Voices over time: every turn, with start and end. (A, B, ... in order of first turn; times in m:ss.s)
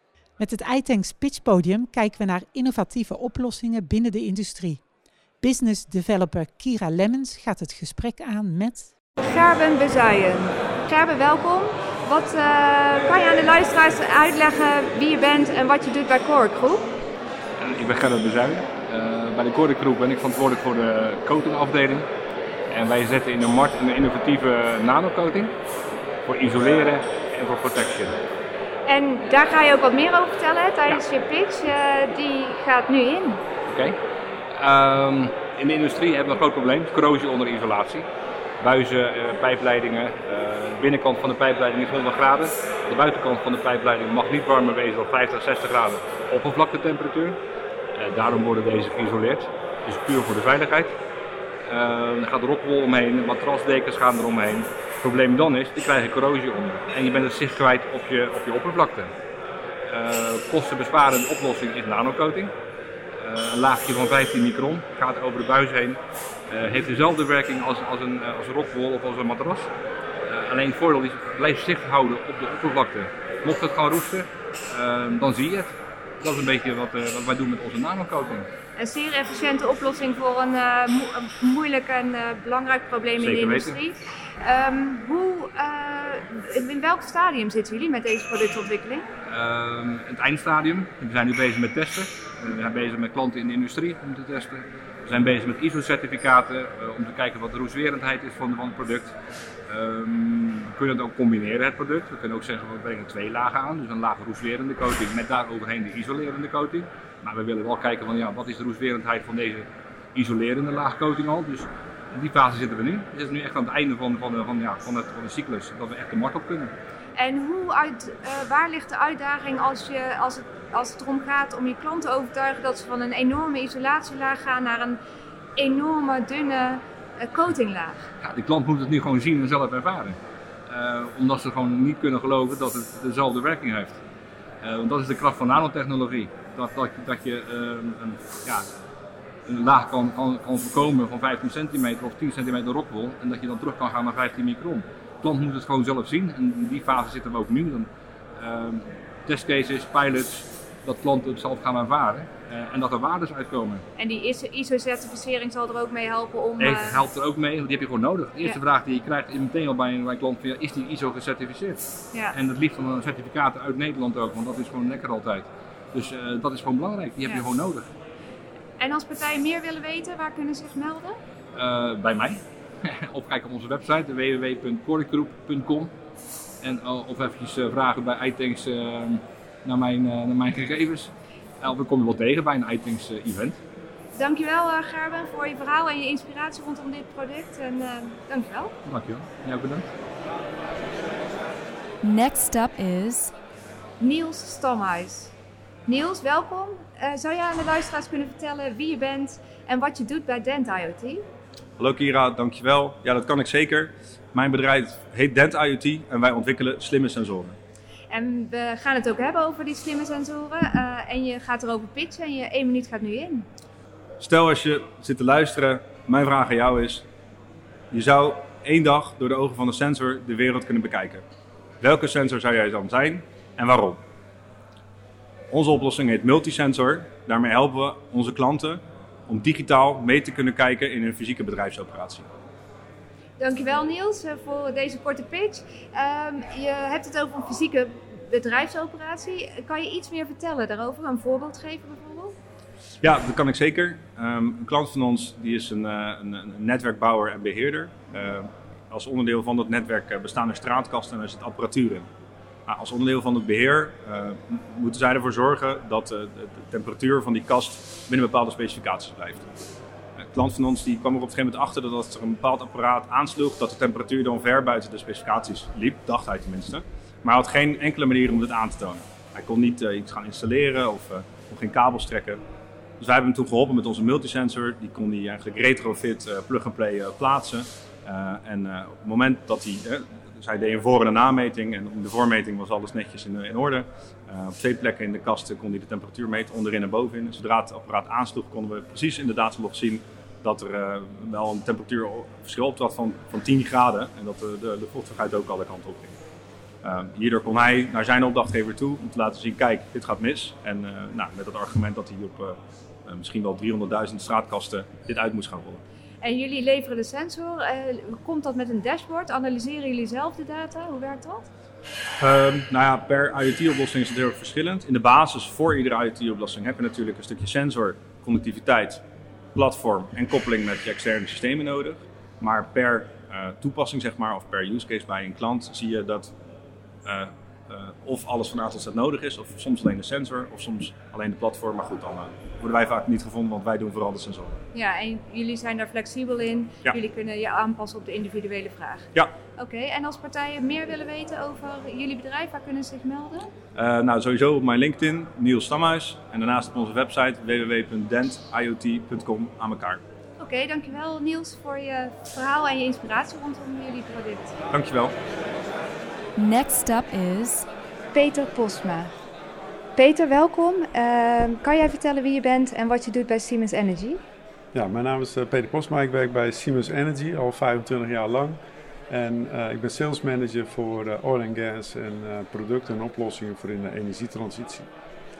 0:00.4-0:04.8 A
0:05.4-0:08.9 A
0:09.2-0:16.9 B
0:17.6-0:22.1 C
0:22.7-0:25.6 C
0:26.3-0:28.2 C
0:28.9-0:33.4 B
0:33.7-0:34.0 C
0:34.6-0:38.1 C
0:38.6-0:47.4 C
0:48.0-0:51.0 C
0:51.7-0:59.1 C
0:59.9-1:02.5 C
1:03.2-1:09.7 C
1:10.3-1:18.5 C
1:18.8-1:29.1 B
1:23.2-1:23.8 C
1:29.3-1:39.1 C
1:39.7-1:56.7 C
1:57.2-2:05.0 B
2:05.6-2:08.0 B
2:08.2-2:10.2 C
2:10.7-2:14.0 C
2:14.6-2:18.7 C
2:19.5-2:33.8 C
2:34.0-2:37.1 B
2:36.6-2:47.9 C
2:48.8-2:51.2 B
2:51.6-2:55.9 C
2:56.6-3:03.6 C
3:04.2-3:08.7 B
3:08.9-3:09.9 C
3:12.0-3:13.3 D
3:14.0-3:15.3 B
3:15.9-3:21.2 B
3:21.8-3:27.6 E
3:28.1-3:33.5 B
3:34.2-3:37.0 E
3:37.9-3:41.2 E
3:41.8-3:44.0 E
3:45.5-3:52.3 E
3:53.4-4:02.4 B
4:03.0-4:12.1 E
4:12.7-4:19.4 E
4:20.2-4:32.4 E
4:33.0-4:56.1 E
4:56.8-5:05.8 E
5:06.2-5:11.5 B
5:12.2-5:19.0 E
5:19.6-5:26.3 E
5:27.0-5:34.6 E
5:34.7-5:43.5 B
5:43.8-5:50.0 E
5:50.4-5:54.5 B
5:54.7-5:55.2 E
5:56.4-5:57.7 D
5:58.1-5:59.1 B
6:00.0-6:04.2 B
6:04.7-6:14.9 F